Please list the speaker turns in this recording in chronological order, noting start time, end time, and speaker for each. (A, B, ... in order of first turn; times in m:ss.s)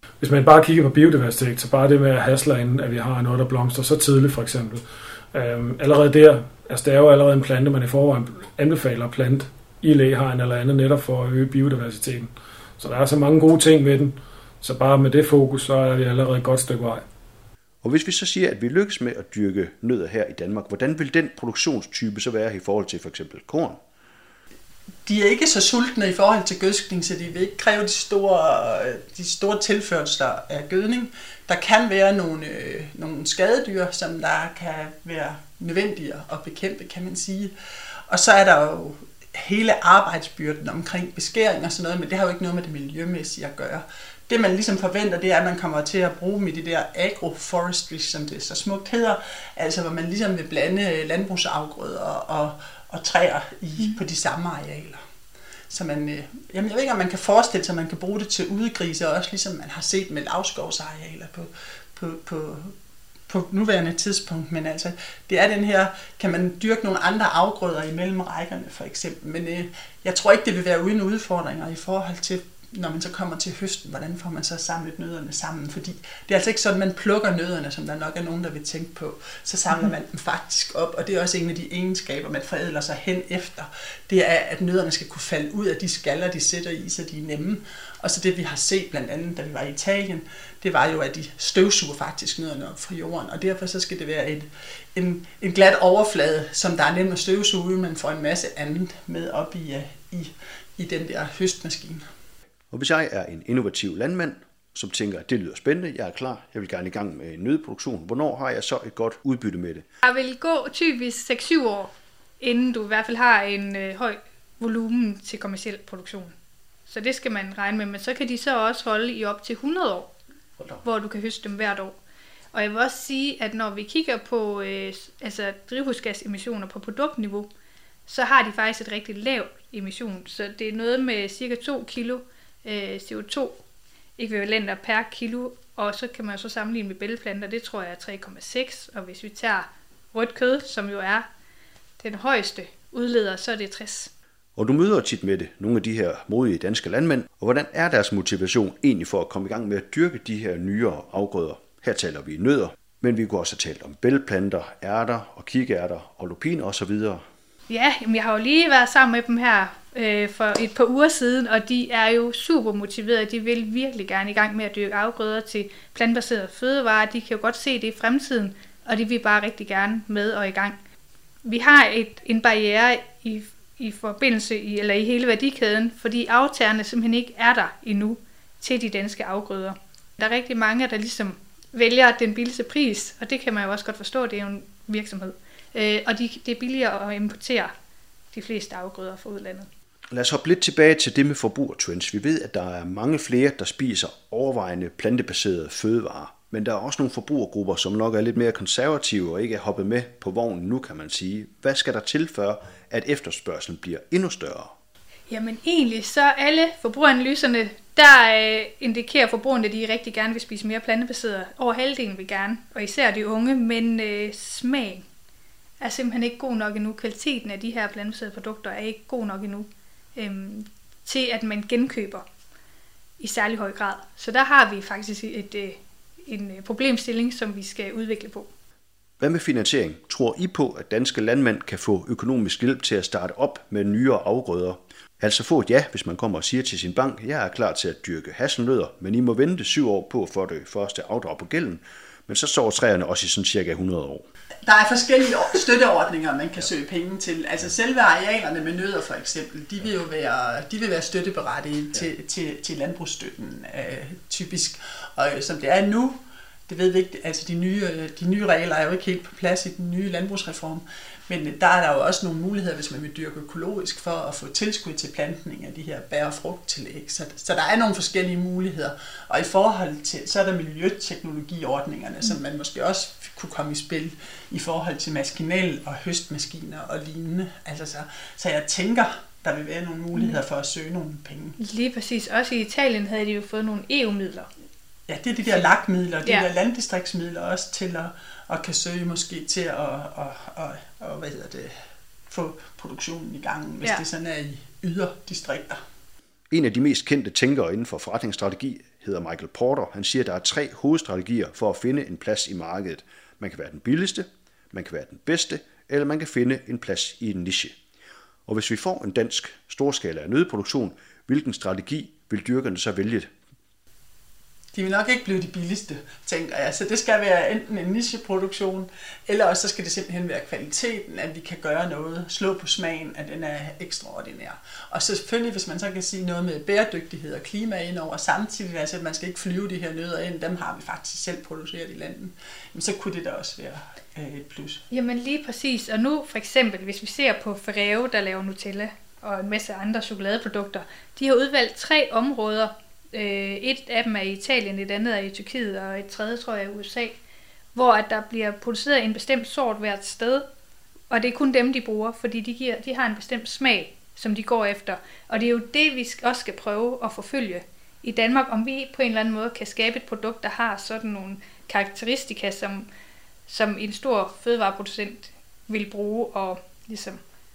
0:00.2-0:17.0 A
0:17.8-0:23.8 B
0:25.0-0:37.5 C
0:38.1-0:55.0 C
0:55.7-1:02.7 C
1:03.3-1:42.0 C
1:42.7-1:49.8 B
1:50.0-1:56.3 D
1:56.9-2:00.1 D
2:00.8-2:02.0 D
2:02.5-2:07.5 D
2:08.1-2:13.6 D
2:14.2-2:21.2 D
2:22.0-2:24.1 D
2:24.6-2:37.2 B
2:37.7-2:50.8 D
2:51.4-3:07.7 D
3:08.3-3:09.7 D
3:10.1-3:24.7 B
3:25.3-3:35.0 D
3:35.8-3:42.2 D
3:43.2-3:48.5 D
3:49.2-4:04.2 B
4:04.6-4:16.2 C
4:16.7-4:41.6 C
4:41.6-4:44.5 D
4:45.1-4:51.7 C
4:52.3-4:55.8 C
4:56.5-5:07.7 B
5:08.5-5:13.3 B
5:14.7-5:34.8 C
5:34.9-5:47.2 D
5:47.7-5:50.4 D
5:51.1-6:02.9 D
6:03.5-6:07.2 D